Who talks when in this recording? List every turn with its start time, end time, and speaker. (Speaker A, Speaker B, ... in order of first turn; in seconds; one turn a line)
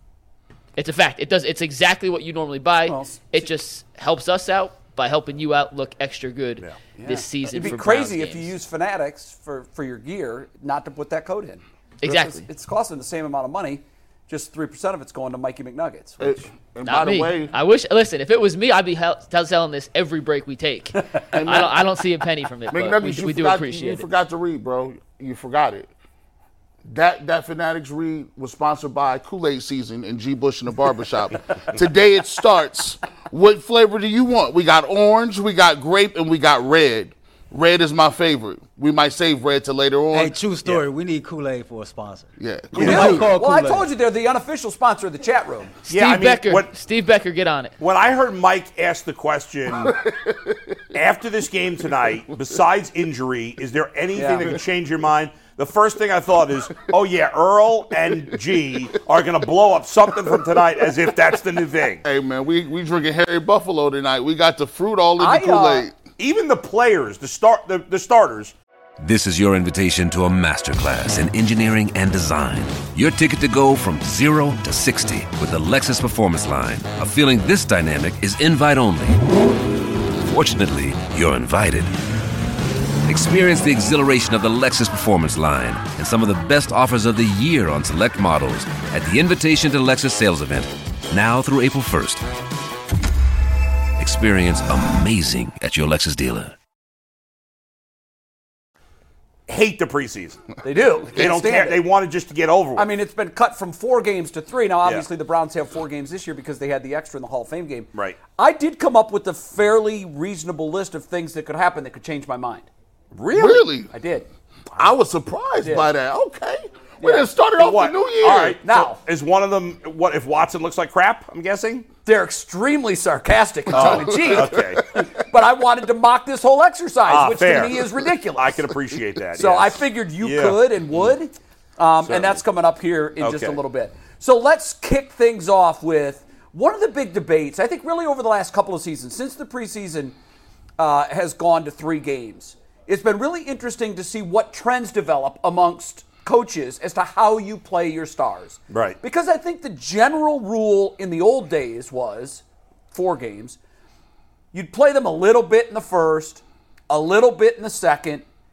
Speaker A: 0.8-8.5
Speaker B: 2.9-3.4
Speaker B: 7.0-16.5
Speaker A: 12.0-12.5
Speaker C: 16.2-17.5
Speaker A: 16.9-24.1
Speaker C: 21.3-21.8
Speaker C: 22.7-25.9
Speaker C: 26.9-40.4
Speaker D: 40.1-43.9
Speaker C: 42.4-43.3
Speaker E: 42.8-43.1
Speaker B: 42.8-45.8
Speaker E: 45.9-46.7
Speaker A: 45.9-47.8
Speaker E: 47.8-50.0
Speaker C: 49.7-50.8
Speaker E: 50.9-62.0
Speaker B: 54.1-54.5
Speaker C: 62.0-65.9
Speaker B: 65.2-65.9
Speaker E: 66.2-68.5
Speaker F: 69.0-79.2
Speaker F: 80.3-81.9
Speaker F: 83.1-92.2
Speaker F: 94.0-96.5
Speaker E: 99.5-100.5
Speaker B: 100.6-101.8
Speaker E: 101.1-102.9
Speaker B: 102.8-112.7
Speaker E: 113.1-113.7
Speaker C: 113.3-113.9
Speaker B: 113.9-114.3
Speaker C: 114.8-118.6
Speaker B: 115.6-115.9
Speaker B: 117.0-117.3
Speaker E: 117.6-121.9
Speaker B: 118.6-119.0
Speaker B: 122.0-128.6
Speaker E: 123.7-124.9
Speaker C: 123.7-124.7
Speaker E: 127.1-131.1
Speaker B: 129.4-140.2
Speaker E: 132.0-132.4
Speaker E: 133.2-133.6
Speaker B: 140.8-153.6
Speaker E: 148.7-149.0
Speaker B: 154.5-158.2